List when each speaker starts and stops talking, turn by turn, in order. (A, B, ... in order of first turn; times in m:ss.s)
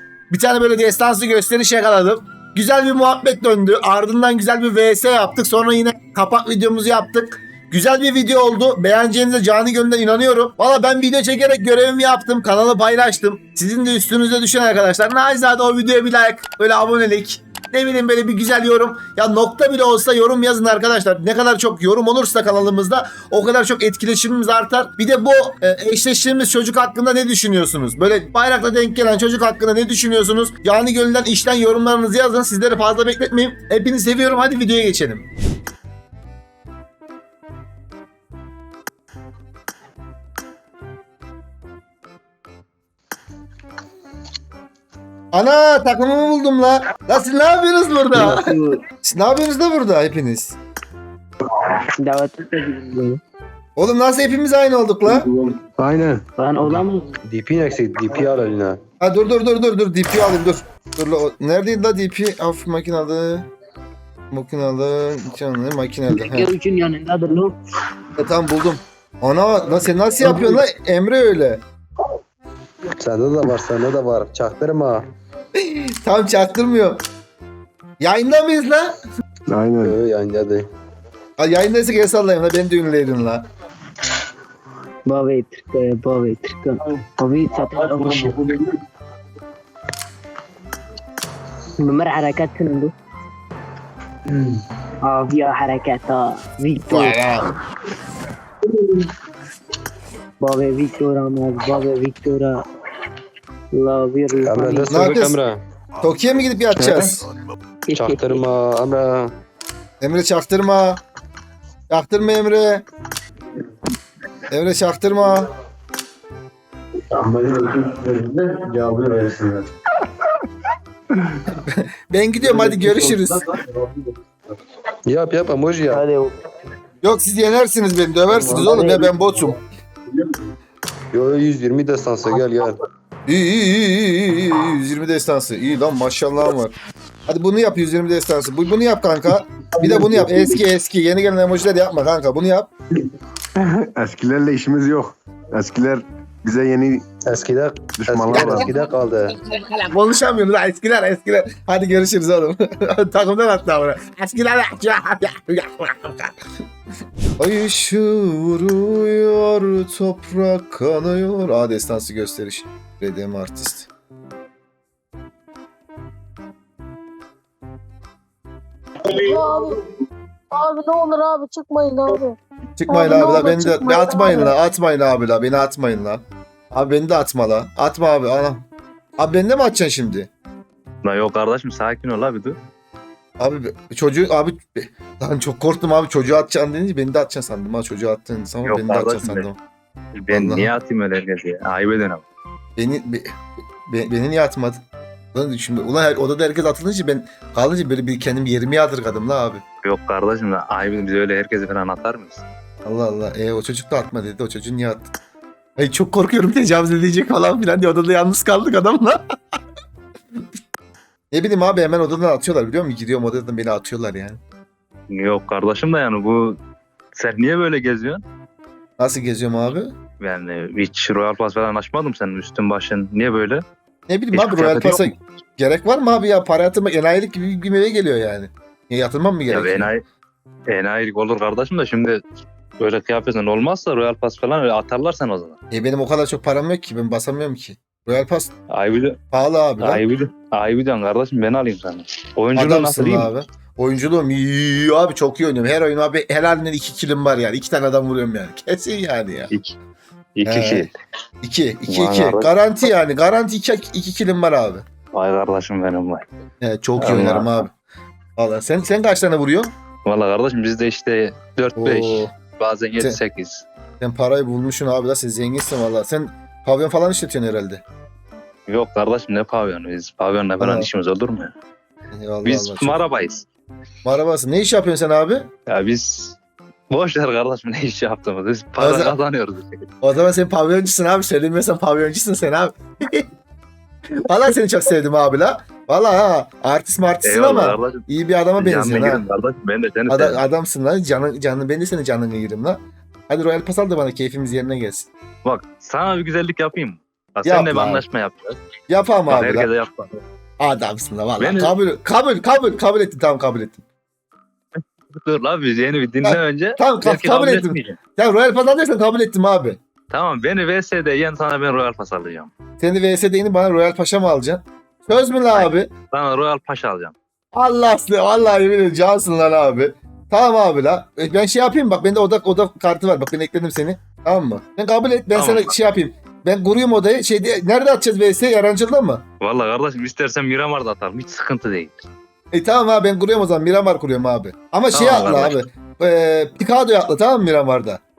0:00.3-0:35.3 A
0:45.3-0:50.6 A
0:48.1-0:48.8 B
0:52.0-0:53.2 B
0:53.8-0:55.3 A
0:55.6-0:58.8 C
0:56.4-0:57.2 B
0:59.0-1:03.5 A
1:04.3-1:06.5 A
1:06.1-1:07.6 B
1:08.2-1:11.6 A
1:10.2-1:10.6 C
1:13.0-1:15.0 C
1:15.6-1:17.0 A
1:18.0-1:19.0 A
1:19.5-1:20.0 D
1:19.8-1:20.7 C
1:21.4-1:23.4 A
1:25.1-1:28.5 B
1:31.8-1:32.9 B
1:35.0-1:37.2 B
1:36.9-1:37.6 A
1:40.4-1:42.6 B
1:43.7-1:45.0 B
1:44.4-1:45.6 C
1:44.9-1:45.4 A
1:46.0-1:47.2 A
1:46.8-1:47.1 C
1:47.9-1:48.4 B
1:48.0-1:49.3 C
1:50.0-1:51.0 A
1:51.9-1:52.8 A
1:54.5-1:55.5 A
1:57.1-1:59.7 C
2:01.6-2:03.5 A
2:02.4-2:04.0 C
2:05.0-2:06.1 C
2:05.9-2:06.4 B
2:07.0-2:09.6 A
2:08.3-2:08.7 C
2:08.5-2:09.2 B
2:10.1-2:10.4 C
2:11.1-2:12.8 C
2:13.3-2:16.7 A
2:17.3-2:22.7 A
2:19.8-2:20.5 C
2:23.6-2:27.1 D
2:27.2-2:29.4 C
2:28.0-2:28.7 D
2:29.5-2:36.4 A
2:37.4-2:43.9 A
2:49.1-2:49.8 E
2:50.5-2:52.4 E
2:52.8-2:58.6 A
2:52.9-2:54.5 E
2:59.2-3:00.3 A
3:01.0-3:02.6 F
3:03.4-3:09.6 A
3:08.6-3:09.5 F
3:10.2-3:12.2 F
3:10.3-3:10.7 A
3:12.8-3:14.8 A
3:15.3-3:19.6 A
3:19.8-3:22.5 F
3:22.8-3:25.1 A
3:25.8-3:29.2 A
3:31.3-3:34.4 A
3:35.1-3:36.6 F
3:37.2-3:38.2 F
3:39.0-3:39.9 A
3:40.2-3:43.6 F
3:44.1-3:49.9 A
3:44.3-3:45.2 F
3:49.5-3:50.0 F
3:50.7-3:52.2 F
3:52.8-3:55.6 F
3:55.7-3:58.5 A
3:58.7-3:59.2 F
3:59.3-4:00.0 A
3:59.8-4:03.3 F
4:02.6-4:09.5 A
4:09.5-4:09.8 F
4:10.4-4:10.9 F
4:10.4-4:10.9 A
4:11.4-4:14.8 A
4:11.9-4:12.5 F
4:15.1-4:16.2 F
4:16.6-4:17.7 A
4:17.0-4:17.6 F
4:18.4-4:19.7 A
4:20.0-4:23.7 F
4:21.8-4:22.3 A
4:24.0-4:27.8 A
4:28.7-4:31.5 F
4:30.6-4:30.9 A
4:32.1-4:33.0 A
4:32.4-4:33.5 F
4:34.0-4:35.5 A
4:35.7-4:36.4 F
4:36.9-4:39.8 F
4:38.8-4:39.2 A
4:40.0-4:43.3 A
4:44.2-4:49.2 A
4:47.2-4:48.1 F
4:48.6-4:50.4 F
4:50.1-4:55.1 A
4:55.4-4:58.6 F
4:57.4-4:58.0 A
4:58.9-4:59.7 A
4:59.3-5:00.2 F
5:00.6-5:03.8 A
5:01.4-5:01.7 F
5:04.8-5:08.0 F
5:06.2-5:09.8 A
5:10.1-5:12.5 F
5:12.8-5:15.9 A
5:15.5-5:17.2 F
5:17.6-5:29.2 A
5:25.4-5:25.7 F
5:29.4-5:32.0 F
5:32.5-5:38.0 A
5:34.9-5:35.6 F